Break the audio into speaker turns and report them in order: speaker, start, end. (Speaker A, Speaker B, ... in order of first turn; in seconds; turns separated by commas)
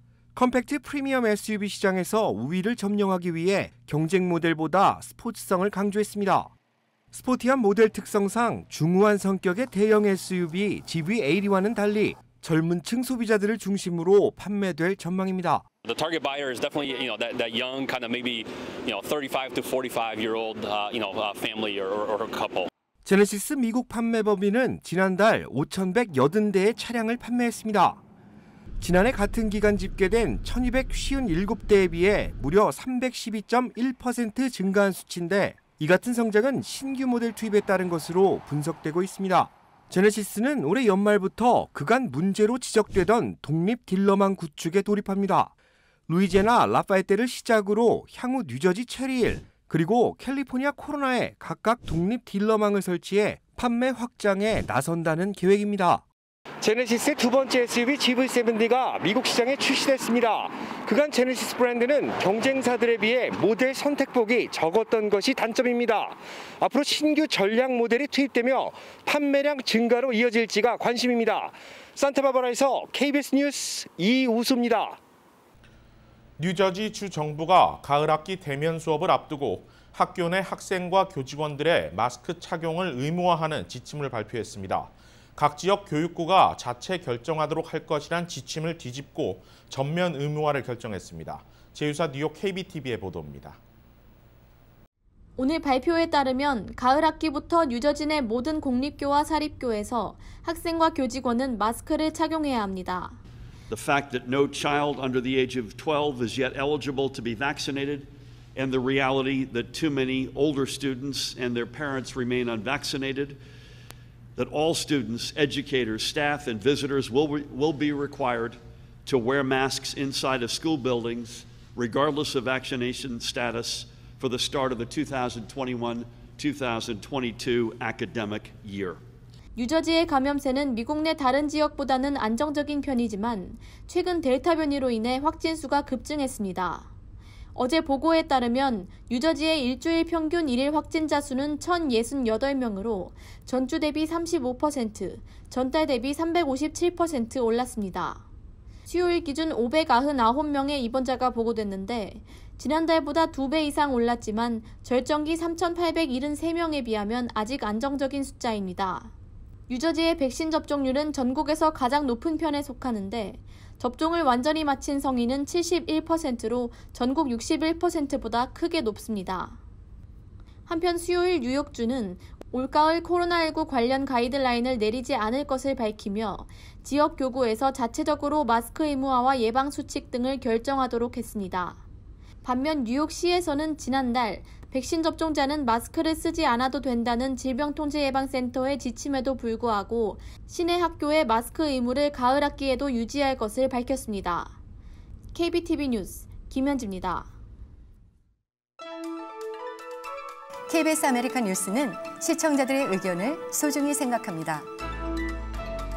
Speaker A: 0.4-6.5, Speaker A: 7.1-15.6, Speaker B: 15.8-22.7, Speaker A: 23.0-28.0, Speaker A: 28.8-45.5, Speaker A: 46.1-56.0, Speaker C: 56.6-59.4, Speaker A: 59.5-62.1, Speaker C: 61.3-74.9, Speaker D: 76.4-93.6, Speaker E: 95.4-103.2, Speaker F: 103.7-113.4, Speaker F: 114.4-129.0, Speaker E: 129.6-136.9, Speaker E: 137.5-148.2, Speaker E: 148.9-159.1, Speaker E: 159.7-169.6, Speaker E: 170.7-181.8, Speaker E: 182.4-194.5, Speaker E: 195.3-197.3, Speaker G: 200.7-204.6